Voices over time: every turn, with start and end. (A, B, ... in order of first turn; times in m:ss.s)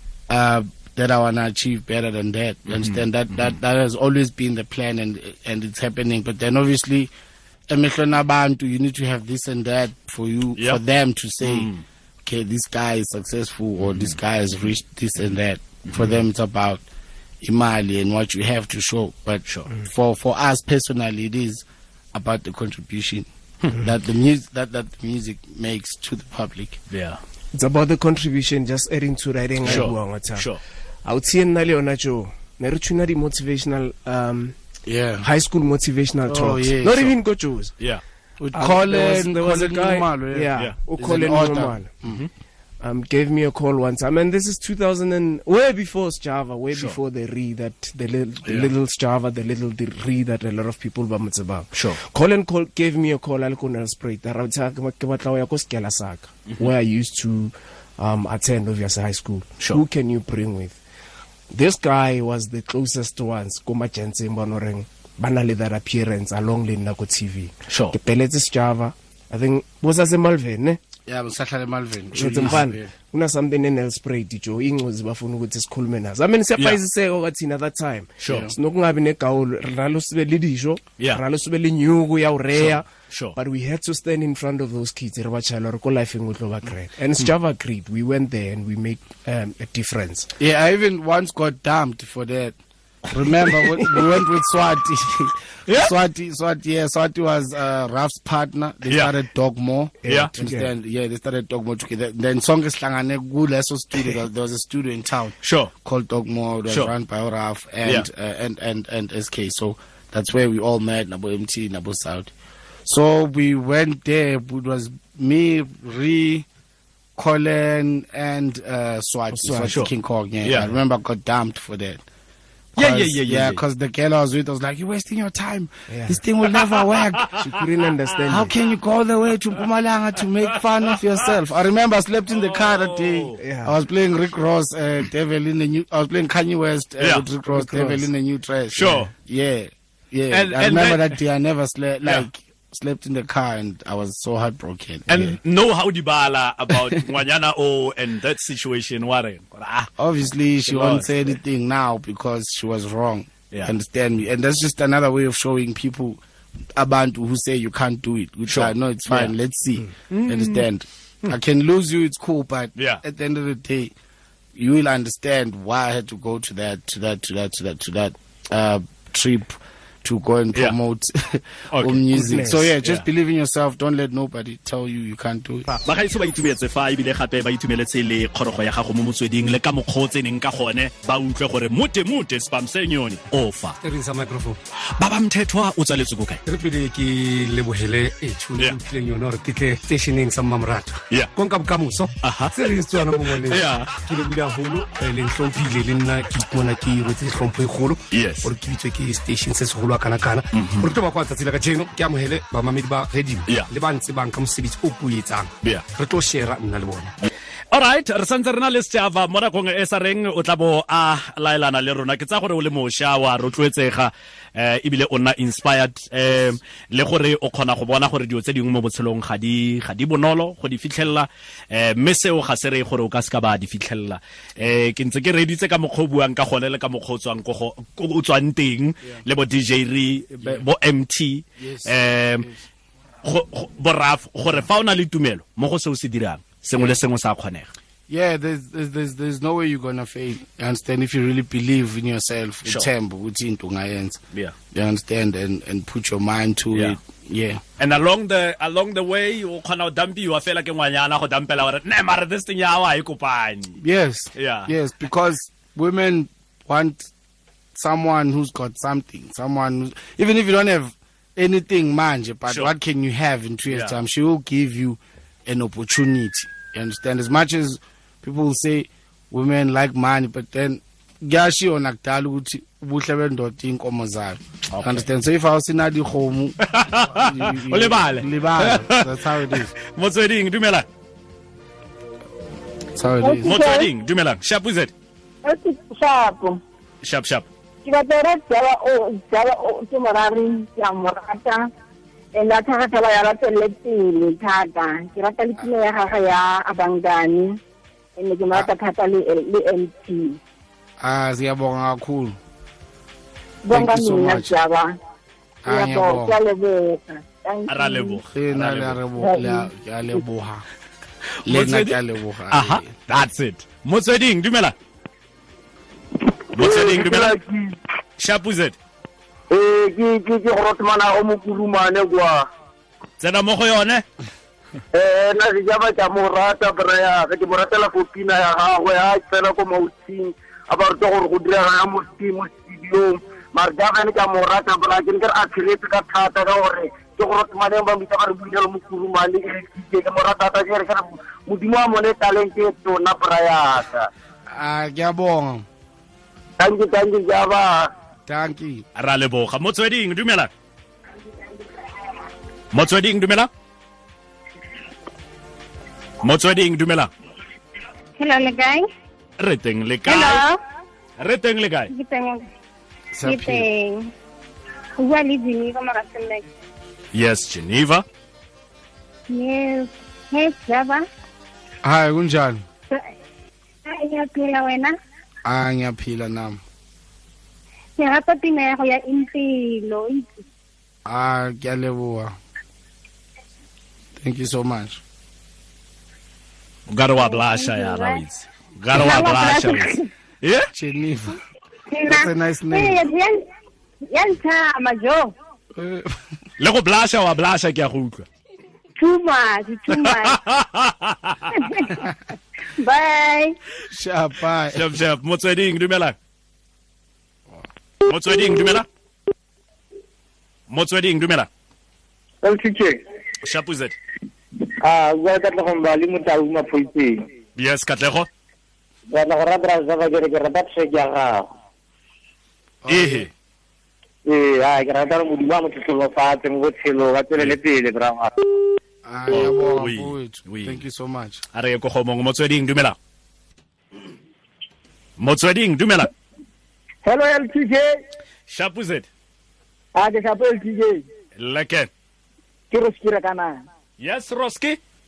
0:00.3-0:07.1 A
0:02.7-0:03.6 B
0:07.7-0:11.7 A
0:11.4-0:11.8 B
0:12.2-0:16.8 A
0:13.9-0:14.1 B
0:15.9-0:16.1 B
0:17.4-0:26.8 A
0:26.9-0:27.2 B
0:27.5-0:30.5 C
0:29.6-0:30.6 B
0:31.0-0:34.5 C
0:34.8-0:35.2 A
0:35.2-0:37.7 C
0:36.3-0:37.1 A
0:38.4-0:42.2 A
0:38.5-0:41.9 C
0:42.0-0:42.3 B
0:42.8-1:00.8 C
0:51.7-0:52.0 B
1:01.5-1:10.8 C
1:07.7-1:08.0 B
1:11.1-1:12.9 A
1:12.1-1:30.3 C
1:18.2-1:18.5 B
1:18.3-1:18.5 A
1:22.5-1:23.4 B
1:30.4-1:52.3 A
1:35.7-1:35.9 B
1:40.0-1:40.7 C
1:45.4-1:45.7 B
1:52.8-1:56.4 A
1:57.2-2:02.0 A
1:59.3-1:59.8 C
2:00.4-2:00.7 B
2:02.8-2:03.6 B
2:02.8-2:07.4 A
2:05.9-2:06.2 C
2:07.4-2:08.5 C
2:08.3-2:25.4 A
2:12.3-2:13.4 B
2:13.4-2:13.7 C
2:17.0-2:17.2 B
2:17.5-2:18.1 C
2:18.7-2:19.1 B
2:20.3-2:21.1 B
2:25.1-2:29.9 B
2:30.0-2:36.2 A
2:30.6-2:31.3 B
2:36.8-2:43.9 A
2:38.5-2:39.3 B
2:40.1-2:40.6 B
2:42.8-2:43.0 B
2:44.5-2:55.7 A
2:51.7-2:52.0 B
2:52.1-2:52.7 C
2:55.8-3:03.8 B
3:03.8-3:04.6 D
3:05.0-3:06.4 B
3:06.4-3:27.1 D
3:12.2-3:12.5 B
3:13.4-3:13.9 B
3:18.1-3:18.5 B
3:20.5-3:20.9 B
3:27.2-3:52.5 B
3:51.6-3:52.6 A
3:53.2-3:57.7 B
3:58.1-4:04.2 A
4:04.7-4:07.6 A
4:07.8-4:13.8 B
4:13.8-4:17.1 A
4:14.4-4:14.7 B
4:17.7-4:39.7 A
4:23.7-4:24.0 B
4:34.7-4:35.0 B
4:36.6-4:40.9 B
4:42.9-4:43.5 A
4:43.2-4:43.9 E
4:43.4-4:44.9 B
4:45.4-4:46.6 E
4:47.0-4:47.5 B
4:47.8-4:51.7 E
4:52.3-4:57.6 E
4:58.2-5:00.4 E
5:01.0-5:02.4 A
5:03.6-5:05.0 E
5:03.7-5:04.5 A
5:05.6-5:06.4 A
5:05.6-5:08.2 E
5:07.7-5:09.0 B
5:08.3-5:10.6 A
5:09.2-5:09.7 E
5:11.4-5:12.9 A
5:11.4-5:14.7 B
5:16.5-5:17.4 B
5:16.5-5:17.7 F
5:18.2-5:18.8 B
5:19.5-5:22.4 F
5:23.2-5:24.0 B
5:24.9-5:44.1 F
5:44.5-5:45.6 A
5:46.6-5:47.9 F
5:48.3-5:48.8 A
5:49.0-5:50.5 B
5:52.7-5:53.5 B
5:56.2-5:57.1 B
5:58.2-5:58.8 E
5:59.4-6:00.4 B
6:00.0-6:00.6 E
6:01.2-6:01.9 B
6:01.9-6:02.4 E
6:03.1-6:03.6 A
6:03.2-6:04.1 E
6:05.0-6:06.4 E
6:07.1-6:08.0 B
6:09.3-6:11.0 E
6:11.8-6:12.6 A
6:13.8-6:14.9 E
6:15.4-6:16.6 A
6:18.0-6:20.4 E
6:21.0-6:22.3 A
6:24.2-6:25.0 A
6:26.9-6:30.7 B
6:27.1-6:28.2 E
6:28.9-6:30.1 E
6:30.7-6:31.4 A
6:31.9-6:33.4 E
6:32.0-6:33.0 A
6:34.1-6:35.3 E
6:35.8-6:36.2 A
6:36.6-6:38.3 B
6:39.0-6:40.4 E
6:39.9-6:41.5 B
6:41.5-6:42.0 E
6:42.8-6:43.6 E
6:43.9-6:44.9 A
6:44.7-6:46.2 B
6:48.0-6:48.8 B
6:50.7-6:51.5 B
6:52.4-6:53.0 F
6:53.4-6:54.0 B
6:54.8-6:57.2 F
6:57.6-6:58.3 B
6:59.1-7:01.4 F
7:02.8-7:03.3 A
7:02.9-7:03.3 B
7:04.2-7:08.4 F
7:09.0-7:11.4 A
7:09.3-7:10.8 B
7:11.5-7:13.0 B
7:15.2-7:16.1 B
7:17.0-7:17.8 F
7:18.5-7:19.1 B
7:19.9-7:21.0 F
7:21.4-7:21.9 B
7:22.7-7:23.6 F
7:24.0-7:24.8 B